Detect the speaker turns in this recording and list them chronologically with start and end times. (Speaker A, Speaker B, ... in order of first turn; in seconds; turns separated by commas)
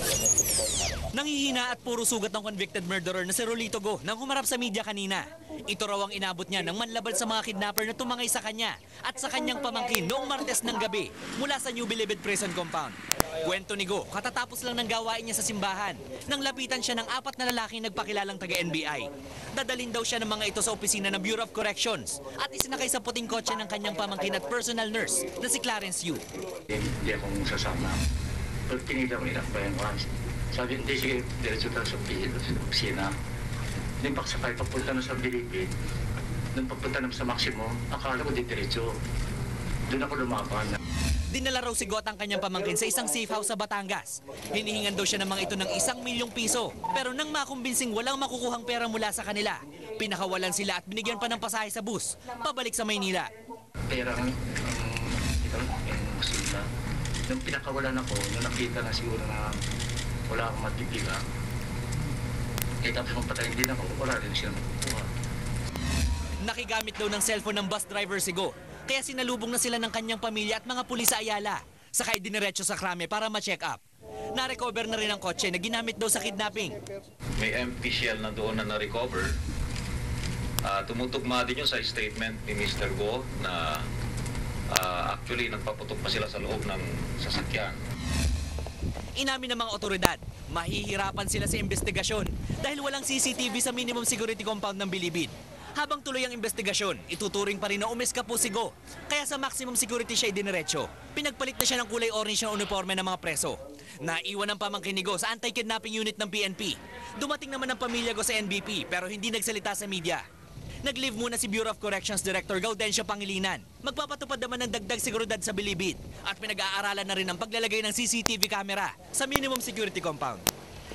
Speaker A: 1.1-26.2, Speaker B: 26.7-28.0, Speaker B: 28.7-33.1, Speaker B: 34.0-35.7, Speaker B: 36.5-38.9, Speaker B: 39.9-40.8, Speaker A: 41.3-53.3, Speaker B: 53.9-56.6, Speaker B: 57.3-59.5, Speaker B: 60.3-61.2, Speaker B: 62.8-65.1, Speaker A: 66.4-73.8, Speaker A: 74.3-76.8, Speaker C: 77.4-79.3, Speaker C: 80.6-83.8, Speaker C: 84.7-87.8, Speaker A: 89.2-110.2, Speaker A: 110.8-120.5